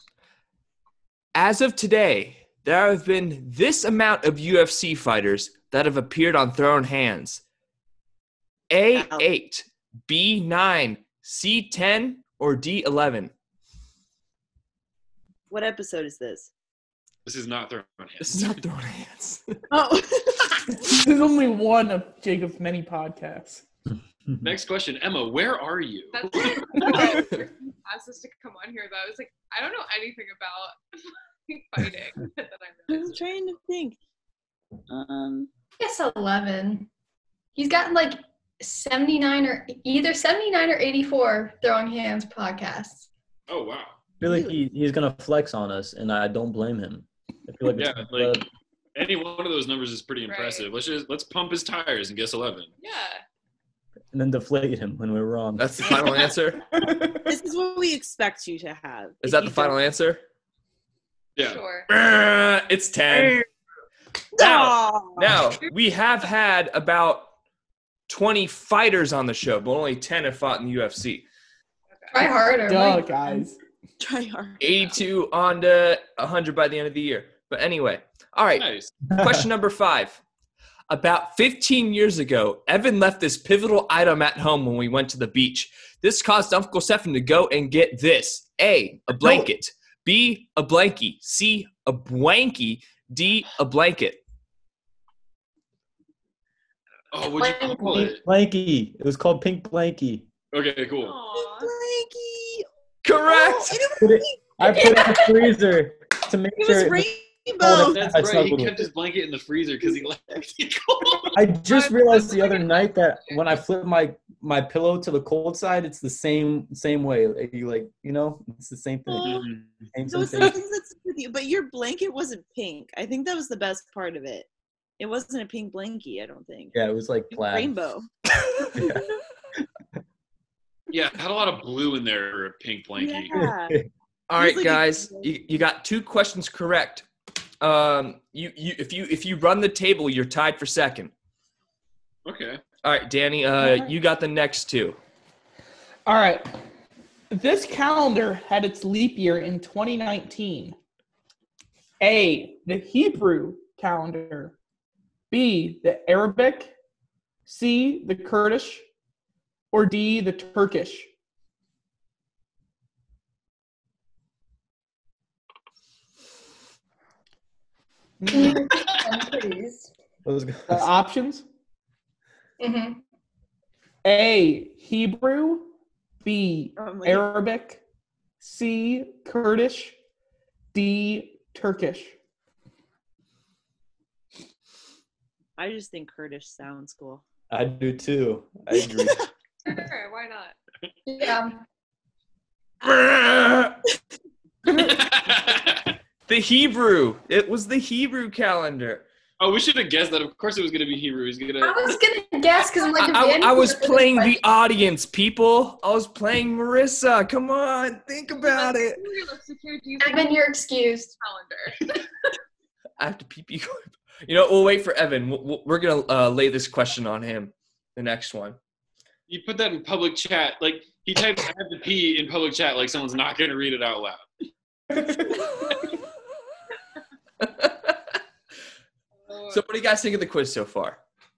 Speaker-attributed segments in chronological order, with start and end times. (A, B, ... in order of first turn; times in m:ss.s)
0:01.3-0:07.4 A
0:08.7-0:13.3 A
0:08.9-0:09.2 B
0:15.5-0:16.5 B
0:17.2-0:18.6 C
0:18.3-0:19.6 A
0:19.7-0:20.9 B
0:20.8-0:23.6 D
0:24.4-0:26.9 C
0:26.1-0:30.8 E
0:31.5-0:33.4 E
0:32.9-0:34.0 B
0:34.9-0:35.5 B
0:35.8-0:36.9 F
0:37.6-0:43.1 F
0:43.5-0:44.0 C
0:44.2-0:48.4 G
0:44.2-0:44.6 B
0:47.7-0:52.7 C
0:50.3-0:50.7 E
0:52.8-0:53.2 E
0:54.1-0:55.9 G
0:55.6-0:56.6 A
0:56.8-0:59.8 B
0:59.2-1:00.2 A
1:01.4-1:01.6 C
1:01.4-1:01.9 E
1:01.9-1:03.4 A
1:04.4-1:05.4 B
1:04.4-1:07.3 A
1:08.1-1:11.2 A
1:12.1-1:13.1 F
1:12.7-1:13.6 D
1:14.0-1:14.9 B
1:14.6-1:20.2 A
1:18.6-1:18.9 C
1:19.2-1:19.4 G
1:20.9-1:34.2 A
1:29.2-1:29.5 G
1:37.1-1:38.2 C
1:37.4-1:38.1 F
1:37.9-1:40.3 G
1:40.5-1:41.2 C
1:41.0-1:41.7 E
1:41.3-1:42.6 B
1:43.0-1:43.8 A
1:43.2-1:45.1 B
1:44.0-1:47.1 G
1:44.7-1:45.4 F
1:46.6-1:48.0 B
1:47.6-1:48.8 G
1:47.8-1:51.4 C
1:51.3-1:59.3 G
1:51.6-1:53.5 E
1:59.1-1:59.5 B
1:59.2-1:59.9 C
1:59.9-2:00.6 G
2:00.0-2:06.8 B
2:06.7-2:07.7 G
2:07.3-2:08.1 B
2:08.7-2:09.0 G
2:10.9-2:13.4 C
2:13.0-2:13.8 B
2:13.3-2:13.8 G
2:14.3-2:17.0 A
2:14.4-2:15.3 B
2:17.6-2:21.1 A
2:22.2-2:22.6 C
2:22.8-2:25.0 A
2:23.6-2:23.9 D
2:26.0-2:26.6 D
2:27.3-2:30.8 D
2:32.0-2:34.5 D
2:35.3-2:36.7 D
2:37.4-2:38.8 D
2:39.7-2:41.1 D
2:48.2-2:48.7 D
2:48.3-2:49.9 F
2:50.2-2:50.9 G
2:50.7-2:51.4 D
2:52.6-2:53.0 F
2:54.0-2:55.7 D
2:56.2-2:57.8 D
2:56.8-2:57.3 B
2:58.4-2:59.9 D
3:00.7-3:02.1 D
3:05.6-3:07.2 B
3:07.5-3:09.2 G
3:08.8-3:09.2 B
3:09.7-3:10.6 E
3:11.1-3:11.6 F
3:12.8-3:13.8 A
3:14.7-3:16.0 C
3:16.3-3:19.0 A
3:19.4-3:22.0 C
3:21.6-3:24.4 F
3:23.0-3:29.0 A
3:28.4-3:30.5 E
3:30.0-3:31.1 F
3:31.2-3:32.0 E
3:33.0-3:38.6 A
3:39.3-3:44.3 C
3:47.4-3:48.0 A
3:49.3-3:49.6 E
3:49.5-3:51.0 A